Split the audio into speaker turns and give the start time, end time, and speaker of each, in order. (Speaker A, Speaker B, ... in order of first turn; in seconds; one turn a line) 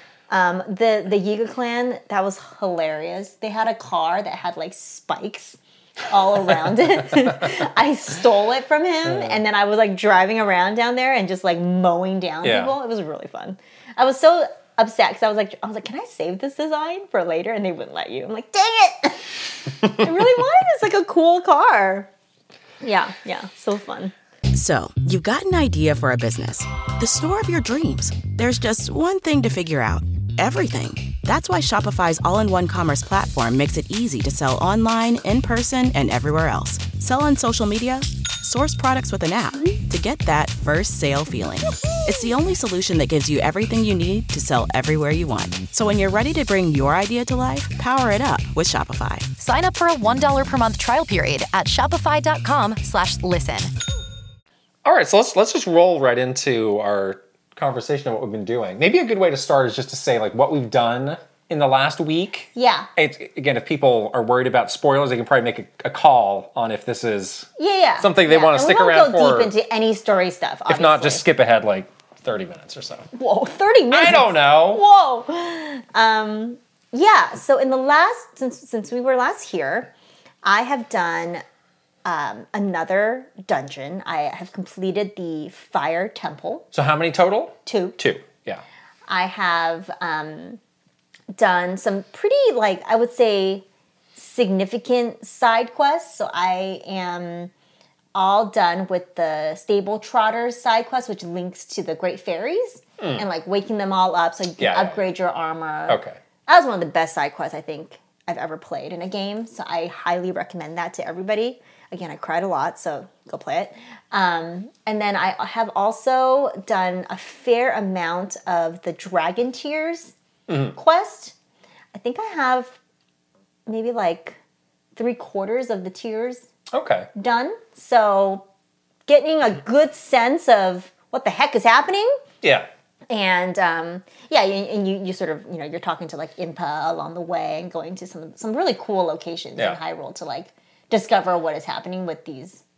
Speaker A: 0.3-19.3
Speaker B: 9.1-9.4
Speaker B: 12.4-12.7
Speaker A: 19.8-22.1
Speaker A: 22.8-24.1
Speaker C: 24.5-49.3
Speaker D: 49.4-53.7
Speaker B: 54.8-67.5
Speaker A: 62.5-62.9
Speaker A: 67.6-71.2
Speaker B: 68.0-69.5
Speaker B: 70.7-73.1
Speaker A: 73.1-79.9
Speaker B: 73.9-74.8
Speaker A: 80.4-81.4
Speaker A: 82.0-86.7
Speaker B: 86.7-88.6
Speaker A: 87.7-88.0
Speaker A: 89.1-90.6
Speaker A: 91.3-93.6
Speaker A: 94.2-97.5
Speaker A: 98.1-120.1
Speaker B: 103.0-103.2
Speaker B: 104.6-105.0
Speaker B: 105.9-106.2
Speaker B: 120.5-120.8
Speaker A: 120.7-121.3
Speaker A: 121.9-122.8
Speaker A: 123.7-124.4
Speaker A: 125.0-126.4
Speaker B: 126.7-127.1
Speaker A: 127.2-128.4
Speaker A: 129.1-132.2
Speaker B: 132.4-132.7
Speaker A: 133.1-142.6